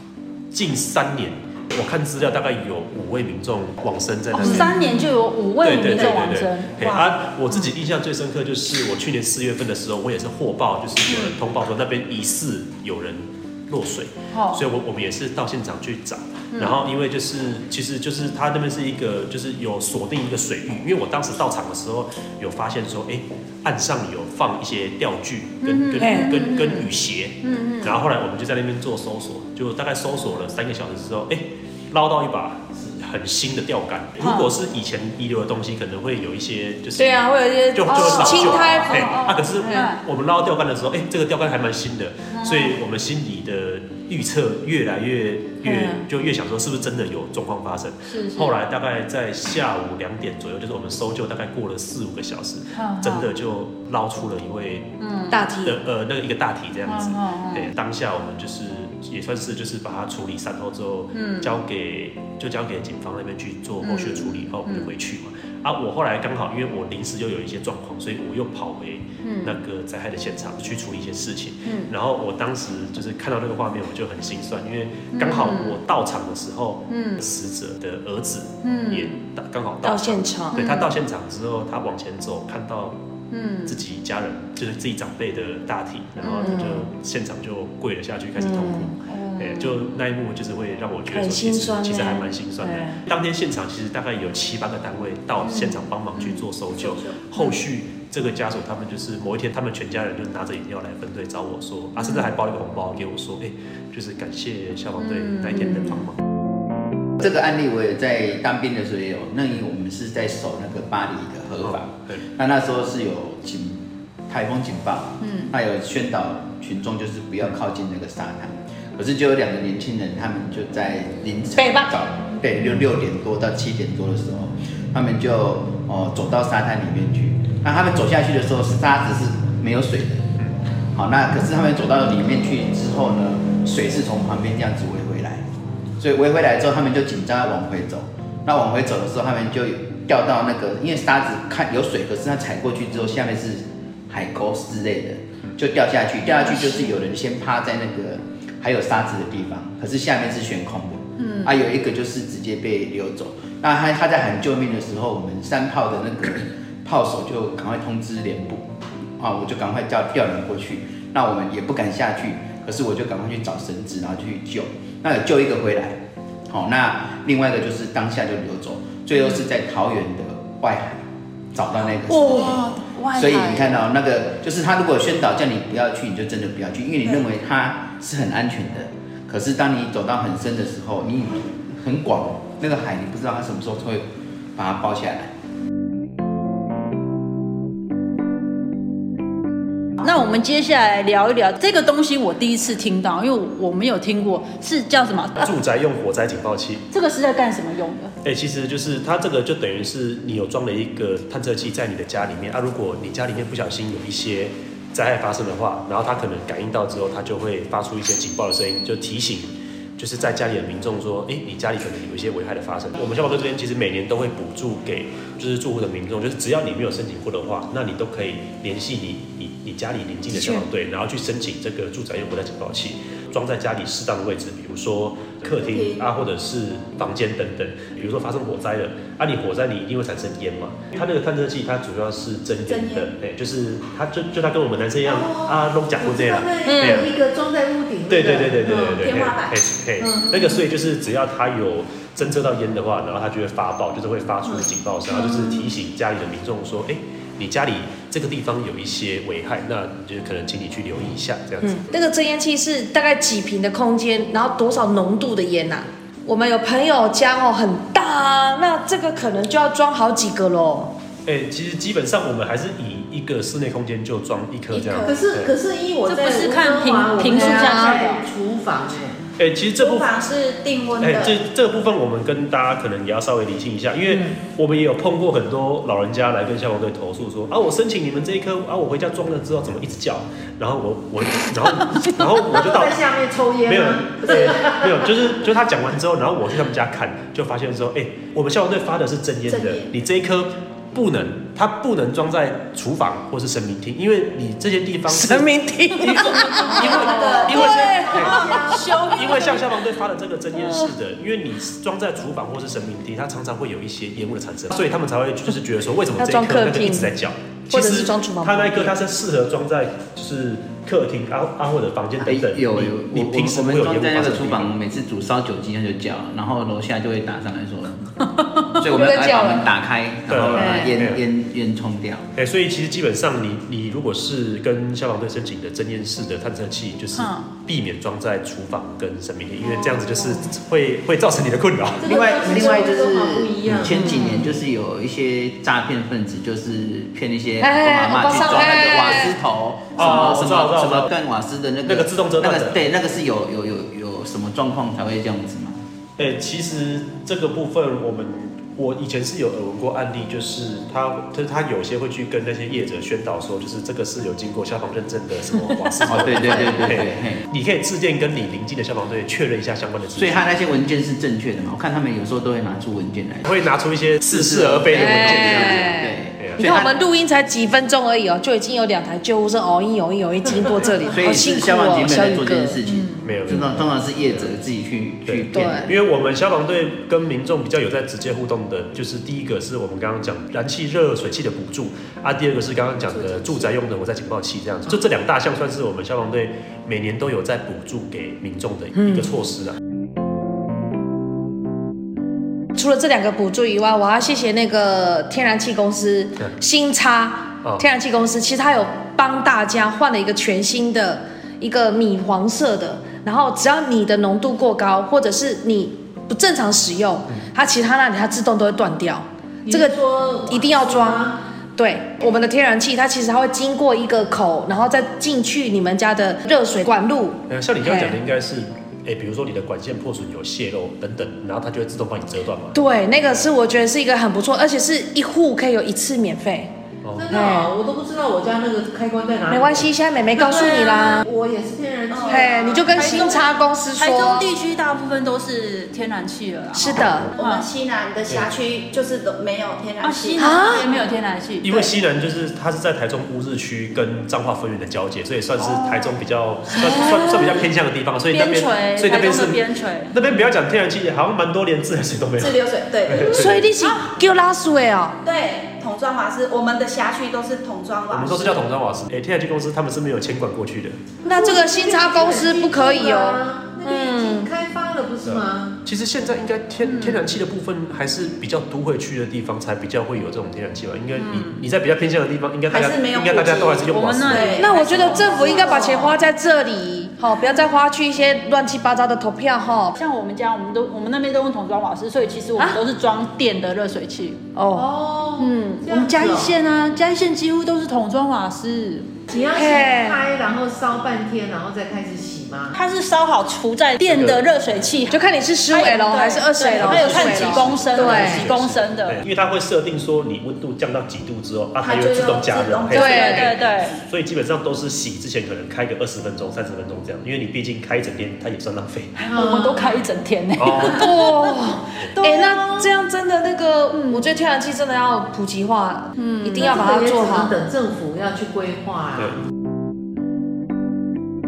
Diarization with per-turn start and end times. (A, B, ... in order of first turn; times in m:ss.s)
0:00.5-0:04.8 A
0:04.3-0:07.7 B
0:05.6-0:54.9 A
0:14.3-0:14.6 B
0:25.6-0:26.9 B
0:26.0-0:26.3 C
0:27.4-0:27.9 B
0:34.2-0:34.5 B
0:37.0-0:39.1 C
0:37.9-0:40.0 B
0:42.3-0:42.8 B
0:45.6-0:46.0 C
0:48.1-0:48.5 B
0:52.7-0:53.3 B
0:55.0-0:55.4 B
0:55.3-0:55.8 C
0:55.6-1:23.0 A
0:56.9-0:57.7 B
1:01.1-1:01.5 B
1:03.8-1:04.9 B
1:09.2-1:09.6 B
1:11.6-1:11.9 B
1:15.1-1:15.8 B
1:16.9-1:17.2 B
1:18.6-1:19.2 B
1:19.8-1:20.7 C
1:20.6-1:20.9 B
1:23.3-1:23.8 B
1:23.6-1:46.2 A
1:26.2-1:26.6 B
1:26.3-1:26.9 C
1:28.4-1:28.9 C
1:29.1-1:29.8 B
1:31.1-1:33.0 C
1:35.4-1:36.4 B
1:45.0-1:46.0 B
1:47.2-2:10.3 D
1:51.6-1:52.2 A
1:55.2-1:55.5 B
2:01.6-2:01.9 C
2:10.9-2:15.4 D
2:16.0-2:38.7 D
2:26.4-2:26.8 B
2:31.2-2:31.5 B
2:39.2-3:05.3 D
2:52.1-2:52.7 C
2:52.1-2:53.7 B
3:10.0-3:15.5 B
3:15.4-3:16.8 A
3:16.9-3:18.1 B
3:18.2-3:57.1 A
3:40.3-3:40.6 C
3:45.5-3:46.0 E
3:52.7-3:53.1 E
3:55.0-3:59.0 F
3:56.6-3:57.1 C
3:58.1-4:11.9 A
3:58.8-3:59.6 E
4:11.6-4:20.9 C
4:21.2-4:25.5 A
4:24.7-4:25.2 E
4:25.0-4:29.2 F
4:26.1-4:28.2 B
4:27.2-4:28.0 C
4:29.4-4:30.1 A
4:29.8-4:31.4 E
4:31.0-4:43.0 A
4:41.9-4:42.1 B
4:42.5-4:45.1 F
4:43.6-5:14.7 A
4:49.5-4:49.9 E
4:55.1-4:58.8 C
4:56.5-4:59.6 E
4:57.3-4:57.6 F
5:00.6-5:00.9 C
5:06.2-5:07.1 C
5:07.7-5:09.0 C
5:12.2-5:18.1 D
5:18.7-5:22.2 D
5:18.8-5:19.7 C
5:20.3-5:21.2 A
5:20.5-5:20.9 C
5:22.4-5:32.1 A
5:27.1-5:27.4 B
5:32.0-5:45.8 D
5:32.0-5:34.2 F
5:33.9-5:34.3 C
5:37.6-5:39.4 C
5:39.9-5:41.1 A
5:41.8-5:42.8 A
5:46.2-6:00.5 A
5:56.0-5:57.4 D
6:00.2-6:03.5 D
6:03.4-6:06.8 A
6:04.2-6:06.9 D
6:04.9-6:12.8 C
6:10.5-6:11.2 F
6:11.1-6:15.9 D
6:13.2-6:14.5 A
6:15.2-6:29.8 A
6:15.5-6:15.9 C
6:29.0-6:29.3 C
6:32.7-6:50.0 C
6:49.6-6:51.4 F
6:50.5-6:58.2 C
6:57.5-7:02.8 A
7:02.7-7:06.7 C
7:07.0-7:07.5 A
7:07.2-7:13.4 F
7:07.3-7:07.7 C
7:09.5-7:11.3 C
7:12.1-7:13.2 E
7:12.3-7:14.5 C
7:12.9-7:17.6 B
7:16.7-7:17.3 C
7:16.9-7:17.3 A
7:17.3-7:20.6 E
7:18.3-7:18.5 A
7:20.0-7:21.9 B
7:20.4-7:20.9 C
7:21.6-7:33.7 A
7:25.6-7:26.1 B
7:26.7-7:27.4 B
7:26.8-7:27.6 C
7:28.3-7:30.2 B
7:32.4-7:33.5 E
7:33.3-7:35.2 C
7:35.2-7:38.6 E
7:38.1-7:41.0 A
7:41.2-7:45.8 F
7:41.2-7:44.5 C
7:45.2-7:54.6 A
7:46.9-7:47.2 B
7:51.2-7:51.6 B
7:52.7-7:56.0 E
7:53.9-7:56.1 B
7:54.6-7:59.9 C
7:55.0-7:56.0 F
7:59.9-8:04.6 B
8:04.6-8:04.9 C
8:04.7-8:06.6 F
8:05.4-8:09.2 B
8:09.3-8:12.7 F
8:09.5-8:10.2 C
8:12.7-8:19.2 B
8:14.0-8:14.4 A
8:15.1-8:18.5 C
8:16.8-8:29.1 A
8:21.8-8:23.5 E
8:22.9-8:24.0 B
8:22.9-8:23.4 C
8:29.2-8:31.2 B
8:29.3-8:30.0 F
8:30.6-8:31.1 A
8:30.8-8:37.6 C
8:32.2-8:32.7 B
8:33.9-8:34.2 B
8:36.2-8:36.7 B
8:36.6-8:39.4 F